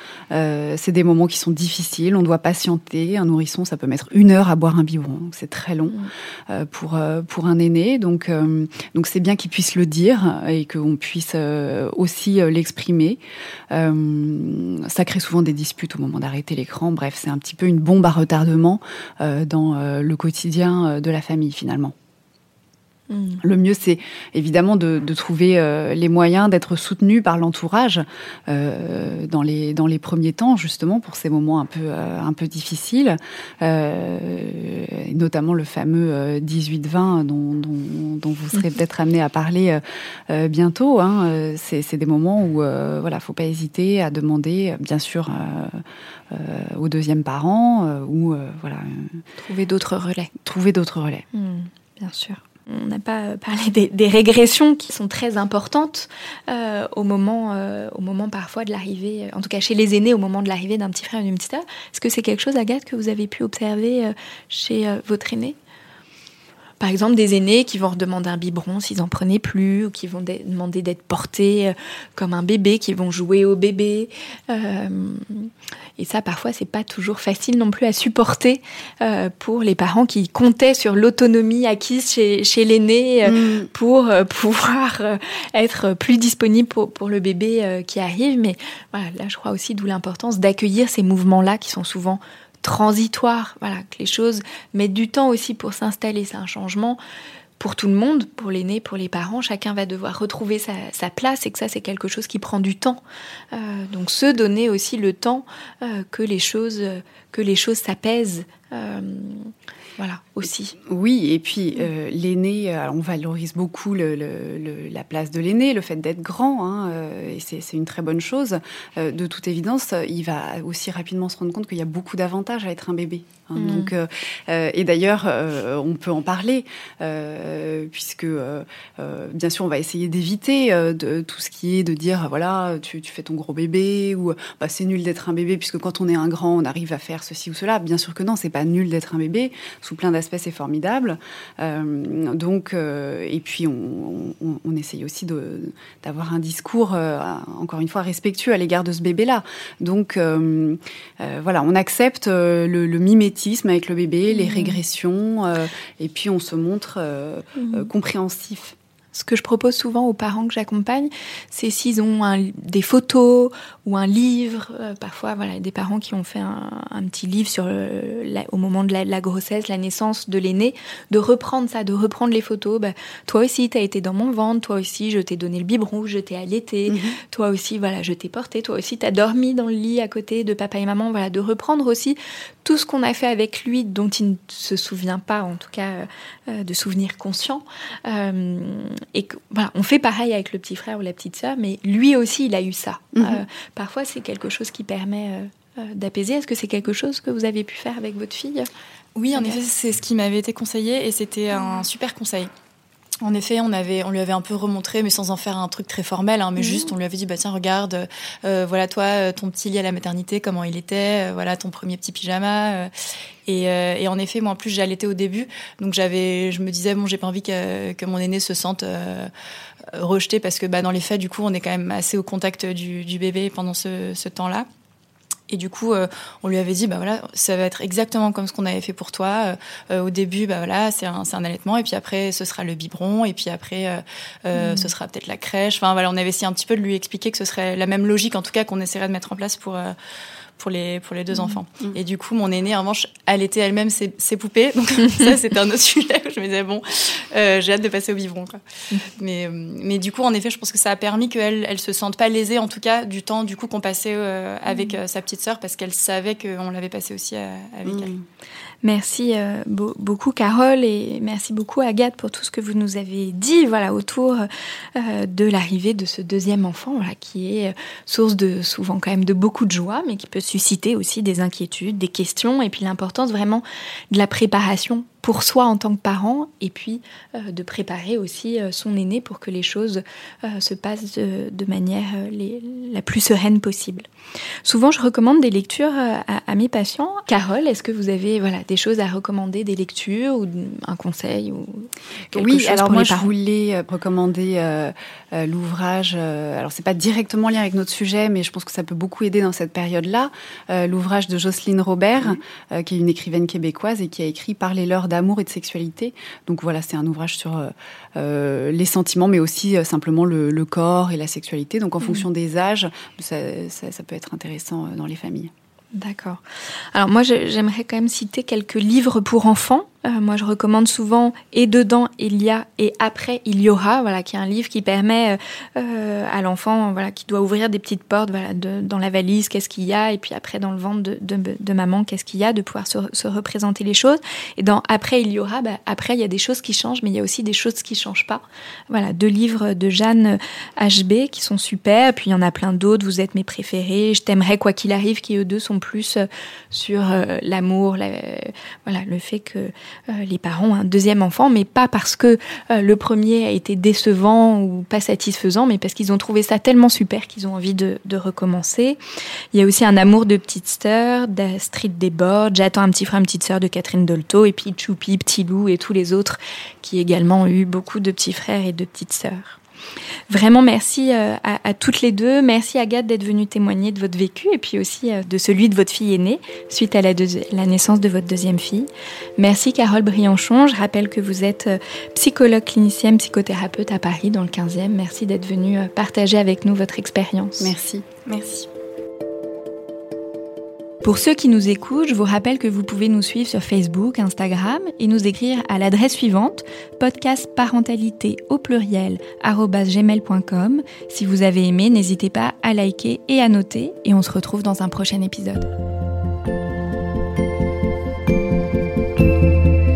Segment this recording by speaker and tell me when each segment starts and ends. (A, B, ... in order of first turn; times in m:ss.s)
0:00.3-0:13.2 A
0:13.7-0:21.9 A
0:23.1-0:23.4 B
0:23.4-0:49.2 A
0:49.4-0:50.3 B
0:50.4-0:51.2 A
0:51.3-1:05.6 B
1:06.8-1:37.0 B
1:23.2-1:23.7 A
1:37.6-1:43.0 B
1:43.5-1:50.8 B
1:50.8-2:38.8 A
2:03.5-2:03.9 B
2:34.3-2:34.8 B
2:37.6-2:37.9 B
2:39.1-3:18.7 B
2:56.9-2:57.2 A
3:13.1-3:13.4 A
3:19.1-3:22.5 C
3:23.2-3:32.9 C
3:26.6-3:26.9 B
3:33.4-3:39.3 C
3:39.9-3:44.6 C
3:45.5-3:59.9 C
3:54.6-3:54.9 B
4:00.6-4:08.6 C
4:09.2-4:18.1 C
4:17.8-4:18.1 A
4:18.8-4:44.1 B
4:44.6-4:53.3 B
4:52.3-5:15.5 A
5:15.9-5:16.4 B
5:16.9-5:59.0 B
5:59.5-6:09.6 B
6:10.3-6:27.7 B
6:27.6-6:28.0 A
6:28.2-6:28.7 C
6:31.0-6:45.7 B